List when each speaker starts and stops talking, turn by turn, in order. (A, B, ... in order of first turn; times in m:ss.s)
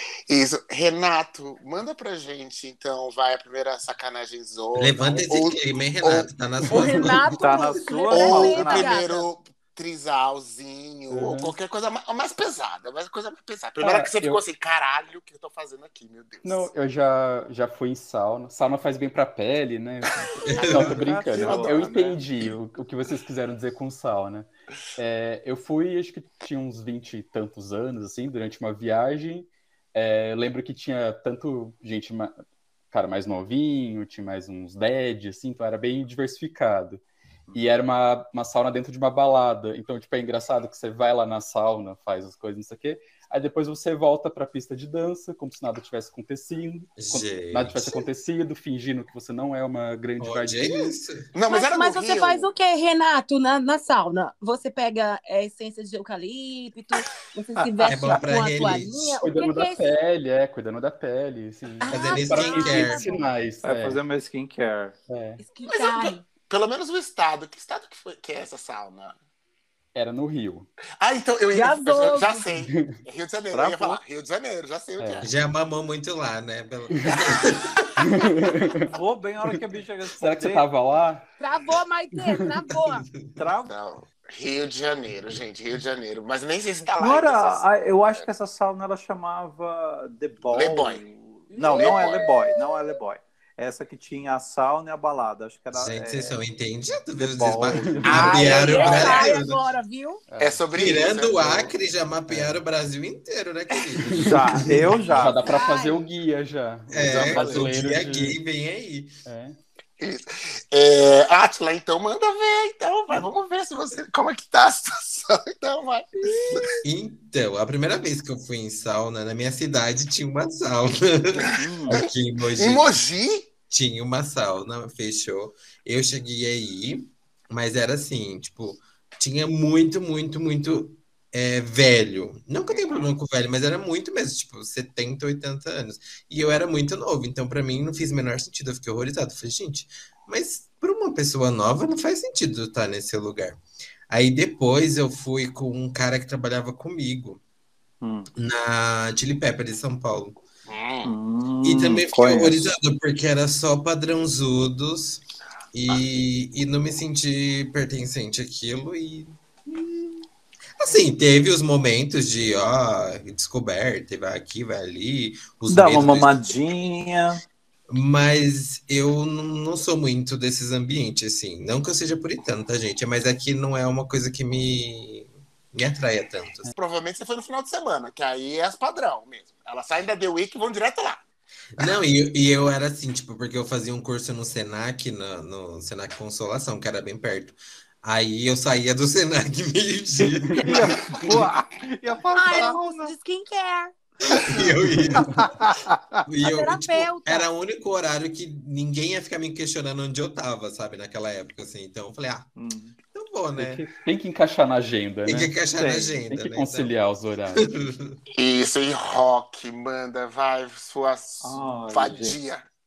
0:00.3-0:06.3 A
0:04.8-0:07.4 B
0:06.7-0:09.2 C
0:06.8-0:07.1 D
0:07.4-0:09.0 E
0:08.1-0:16.7 A
0:11.1-0:11.5 D
0:13.8-0:14.4 D
0:16.4-0:32.3 D
0:20.4-0:21.0 B
0:20.5-0:22.5 A
0:20.7-0:21.9 E
0:32.9-0:37.0 D
0:37.5-0:50.9 D
0:47.0-0:48.0 B
0:50.2-0:51.2 B
0:51.3-0:52.5 A
0:51.5-0:59.9 C
0:57.8-0:58.7 D
0:57.8-0:59.2 B
0:59.2-1:04.0 D
1:01.8-1:03.2 C
1:01.9-1:03.1 B
1:03.6-1:05.0 E
1:05.1-1:05.4 D
1:05.4-1:06.2 C
1:05.7-1:09.2 A
1:09.9-1:10.7 D
1:11.0-1:15.3 A
1:11.5-1:12.4 C
1:12.6-1:13.0 D
1:13.5-1:14.0 E
1:15.0-1:15.3 D
1:15.2-1:17.9 B
1:16.9-1:17.2 D
1:18.0-1:18.9 D
1:18.9-1:20.7 E
1:20.2-1:21.2 D
1:21.4-1:23.0 C
1:23.1-1:23.4 B
1:23.4-1:23.7 E
1:23.6-1:28.2 A
1:27.0-1:36.4 E
1:30.5-1:31.0 A
1:31.5-1:33.0 C
1:31.8-1:32.2 A
1:35.7-1:39.6 B
1:37.2-1:39.1 E
1:37.8-1:38.2 D
1:38.0-1:39.3 A
1:38.1-1:40.2 C
1:40.3-1:40.6 D
1:40.4-1:41.7 A
1:40.7-1:44.7 B
1:42.3-1:42.6 D
1:44.0-1:48.4 D
1:44.2-1:45.4 E
1:45.4-1:46.0 C
1:46.9-1:49.1 B
1:47.0-1:47.7 A
1:49.2-1:49.6 D
1:50.0-1:56.8 A
1:56.2-1:56.8 E
1:56.8-2:02.9 B
2:01.6-2:02.0 E
2:01.9-2:03.5 A
2:03.7-2:27.4 B
2:28.0-2:28.3 E
2:28.4-2:30.4 B
2:30.7-2:31.1 A
2:31.0-2:32.7 E
2:31.6-2:35.2 B
2:35.7-2:40.1 B
2:40.8-2:46.4 B
2:45.7-2:47.4 E
2:47.9-2:56.7 B
2:56.7-3:01.2 A
3:01.8-3:11.0 B
3:10.4-3:10.7 D
3:10.6-3:13.1 E
3:12.3-3:13.9 C
3:14.3-3:15.5 B
3:15.1-3:16.2 E
3:16.2-3:22.5 B
3:16.4-3:17.5 C
3:22.6-3:22.9 E
3:23.1-3:23.8 B
3:23.6-3:25.6 D
3:25.2-3:26.9 B
3:25.8-3:26.2 E
3:26.3-3:27.6 D
3:27.6-3:28.2 B
3:28.4-3:32.6 A
3:31.4-3:32.4 E